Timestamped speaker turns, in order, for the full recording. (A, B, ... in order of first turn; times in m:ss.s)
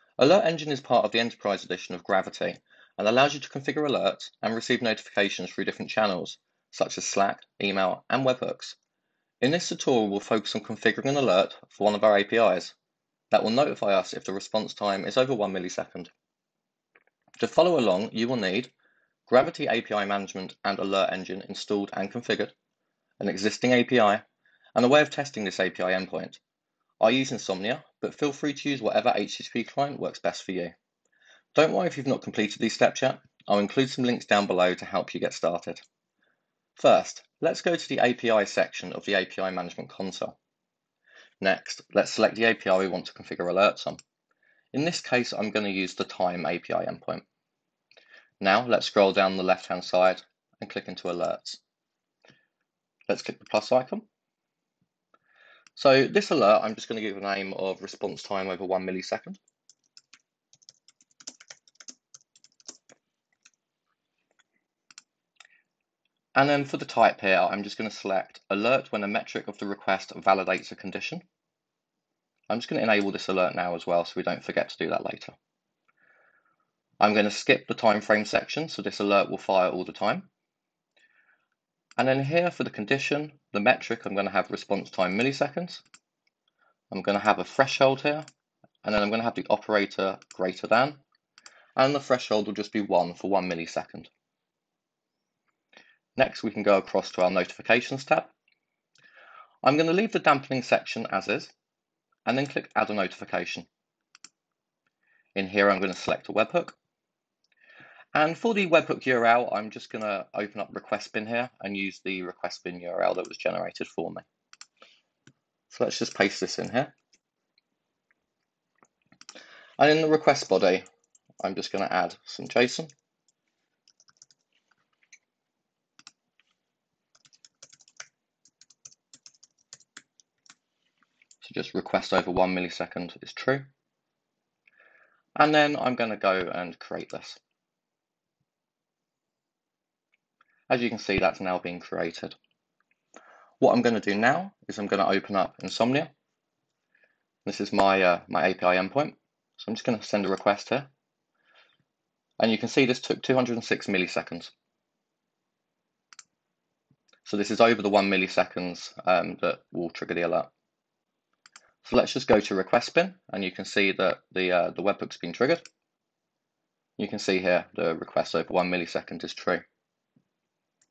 0:00.2-0:08.8 A
0:09.4-0:12.7 A
0:13.3-0:16.1 A
0:17.4-0:18.7 A
0:19.3-0:22.5 A
0:23.2-0:24.2 A
0:24.8-0:26.4 A
0:27.0-0:30.7 A
0:31.5-0:35.8 A
0:36.8-0:40.3 A
0:41.4-0:44.0 A
0:44.7-0:47.2 A
0:48.4-0:51.6 A
0:53.1-0:54.0 A
0:55.8-0:59.4 A
1:06.4-1:11.2 A
1:12.5-1:15.3 A
1:17.0-1:20.3 A
1:22.0-1:25.8 A
1:26.9-1:28.2 A
1:28.8-1:31.0 A
1:31.8-1:34.1 A
1:36.2-1:38.3 A
1:39.6-1:41.5 A
1:42.2-1:43.7 A
1:45.3-1:46.8 A
1:48.1-1:54.2 A
1:55.7-1:56.9 A
1:59.8-2:00.8 A
2:01.4-2:02.9 A
2:11.4-2:13.7 A
2:15.4-2:17.4 A
2:20.7-2:22.3 A
2:23.6-2:26.1 A
2:27.4-2:30.9 A
2:32.4-2:34.5 A
2:37.2-2:40.5 A
2:41.8-2:45.6 A
2:47.0-2:49.6 A